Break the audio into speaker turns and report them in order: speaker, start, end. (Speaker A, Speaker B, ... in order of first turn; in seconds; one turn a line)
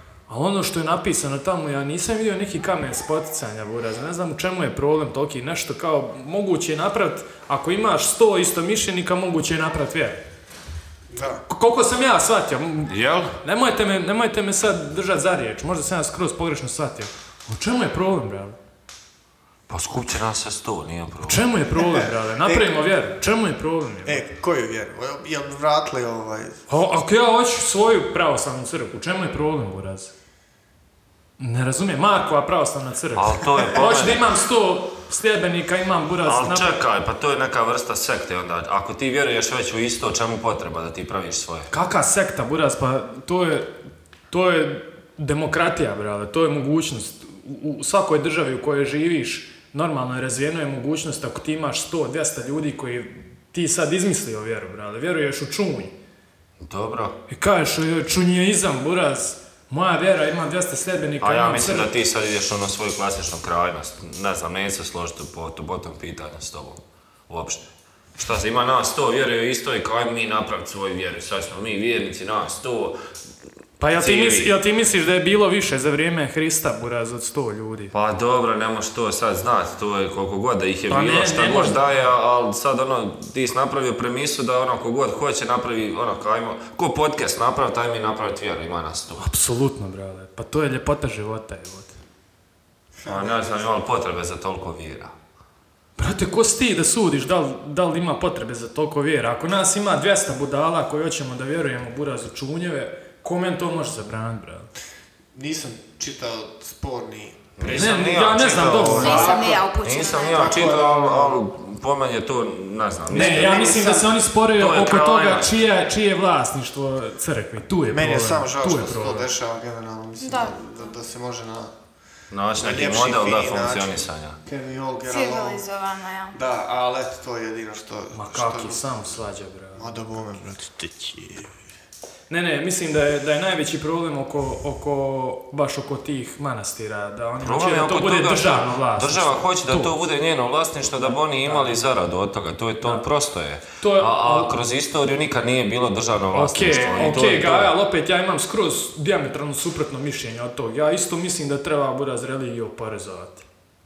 Speaker A: 0.3-10.2
Speaker B: 11.1-11.4
Speaker A: 11.5-18.6
Speaker C: 12.9-13.4
Speaker C: 19.7-21.4
Speaker A: 21.2-24.3
Speaker B: 21.8-22.7
Speaker B: 24.1-26.6
Speaker A: 26.7-30.1
Speaker A: 31.4-36.8
Speaker C: 33.1-34.3
Speaker C: 36.2-41.7
Speaker A: 41.7-43.7
Speaker A: 44.3-55.9
Speaker C: 56.6-57.2
Speaker A: 57.3-61.9
Speaker C: 61.2-73.0
Speaker A: 73.8-77.9
Speaker C: 73.9-74.5
Speaker C: 77.9-89.2
Speaker A: 80.9-82.0
Speaker A: 89.2-92.0
Speaker B: 93.0-93.6
Speaker C: 93.0-95.1
Speaker A: 96.0-104.7
Speaker B: 105.3-108.0
Speaker C: 107.6-113.8
Speaker A: 107.7-109.4
Speaker B: 108.7-109.7
Speaker D: 108.9-110.5
Speaker B: 110.2-111.4
Speaker A: 113.1-119.3
Speaker B: 113.1-114.2
Speaker C: 114.5-115.6
Speaker B: 117.9-121.7
Speaker D: 120.2-120.9
Speaker C: 122.3-124.4
Speaker B: 122.6-125.6
Speaker D: 125.1-126.4
Speaker B: 126.3-129.0
Speaker A: 128.1-130.0
Speaker B: 129.8-131.5
Speaker A: 132.3-139.9
Speaker C: 137.4-147.7
Speaker A: 141.4-141.8
Speaker A: 143.8-144.6
Speaker A: 146.3-153.4
Speaker D: 146.7-147.1